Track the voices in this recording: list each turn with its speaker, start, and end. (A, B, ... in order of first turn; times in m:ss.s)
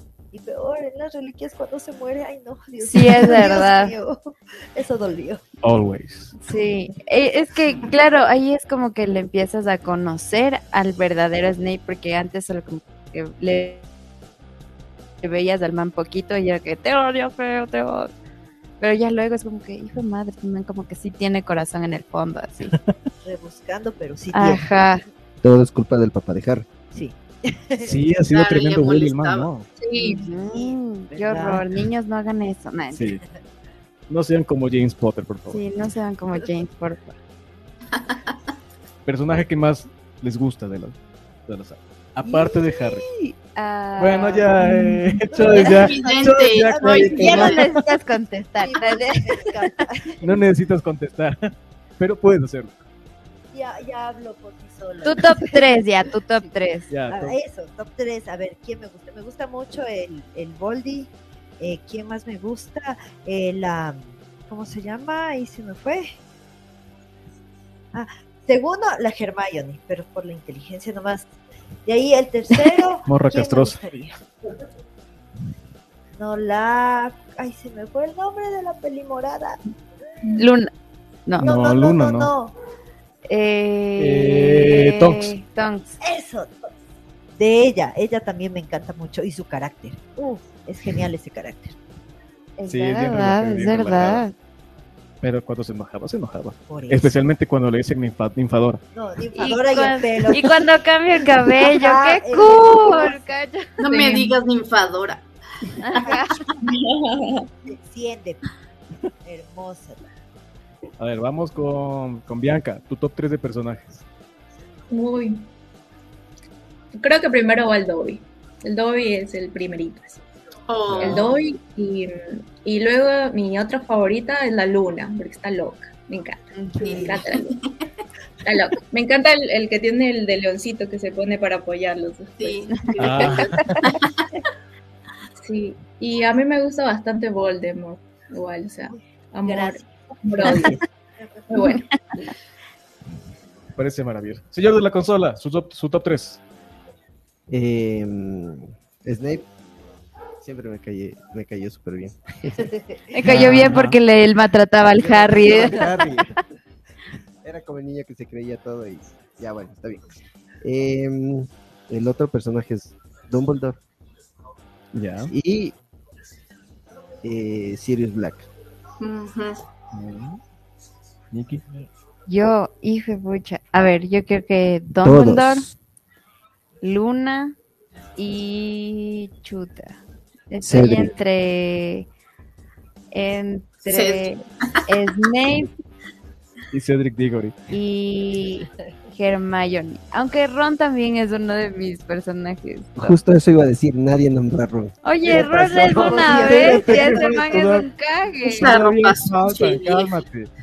0:00.3-0:05.4 A
0:02.8-0:04.0 B
0:05.6-0:06.4 C
0:06.4-0:13.8 B
0:15.2-0:18.1 B
0:18.8-0:22.8 B
0:23.2-0:24.7 A
0:24.3-0:25.0 B
0:25.4-0:26.7 D
0:26.9-0:28.0 A
0:27.8-0:29.7 C
0:28.3-0:29.5 E
0:29.8-0:30.2 F
0:30.0-0:33.2 B
0:30.4-0:31.7 A
0:32.9-0:33.2 C
0:34.1-0:35.6 C
0:35.5-0:37.2 B
0:39.1-0:43.1 C
0:42.2-0:43.3 A
0:43.6-0:44.5 B
0:44.0-0:47.8 C
0:45.3-0:47.6 A
0:45.5-0:47.6 E
0:47.2-0:49.7 B
0:48.6-0:50.2 A
0:50.2-0:52.8 C
0:53.5-0:55.7 A
0:55.0-0:56.9 B
0:56.9-0:57.4 C
0:57.1-1:06.2 A
1:07.9-1:11.3 A
1:11.8-1:14.2 A
1:13.1-1:13.8 C
1:16.2-1:19.6 A
1:20.4-1:20.7 B
1:21.4-1:22.3 C
1:21.4-1:22.6 A
1:23.3-1:26.0 B
1:24.0-1:25.3 C
1:26.0-1:26.7 A
1:27.4-1:31.8 A
1:32.6-1:34.3 B
1:32.7-1:34.2 C
1:35.2-1:38.8 C
1:36.7-1:37.2 A
1:38.9-1:40.6 A
1:39.4-1:44.3 B
1:41.6-1:43.2 A
1:43.8-1:45.3 E
1:45.8-1:46.3 B
1:46.0-1:46.4 A
1:46.6-1:47.5 F
1:47.6-1:48.4 A
1:49.2-1:50.1 A
1:51.0-1:54.0 C
1:54.9-1:55.5 F
1:57.0-2:00.2 F
2:00.7-2:01.3 E
2:00.9-2:01.3 C
2:01.0-2:07.6 F
2:06.5-2:07.1 B
2:06.8-2:07.5 E
2:08.4-2:12.8 F
2:12.4-2:14.0 E
2:13.0-2:13.9 C
2:15.4-2:20.8 F
2:18.9-2:21.6 A
2:21.5-2:21.9 F
2:21.6-2:21.9 B
2:23.8-2:26.4 C
2:27.5-2:29.4 D
2:30.4-2:32.7 D
2:32.6-2:33.0 A
2:33.1-2:35.9 B
2:33.2-2:34.0 C
2:35.0-2:36.4 D
2:37.4-2:40.1 D
2:40.6-2:43.8 D
2:44.9-2:45.3 C
2:45.2-2:45.8 D
2:47.2-2:48.5 D
2:49.0-2:49.6 E
2:49.9-2:50.4 C
2:51.3-2:51.6 C
2:52.3-2:55.7 B
2:55.0-2:55.7 D
2:56.8-2:57.6 B
2:58.2-3:00.0 B
3:00.5-3:02.1 B
3:00.6-3:01.1 D
3:03.1-3:05.7 B
3:03.8-3:04.3 E
3:06.7-3:07.6 C
3:07.7-3:13.2 B
3:13.0-3:17.5 D
3:15.0-3:18.8 B
3:15.9-3:17.9 C
3:18.4-3:20.1 E
3:18.5-3:20.5 C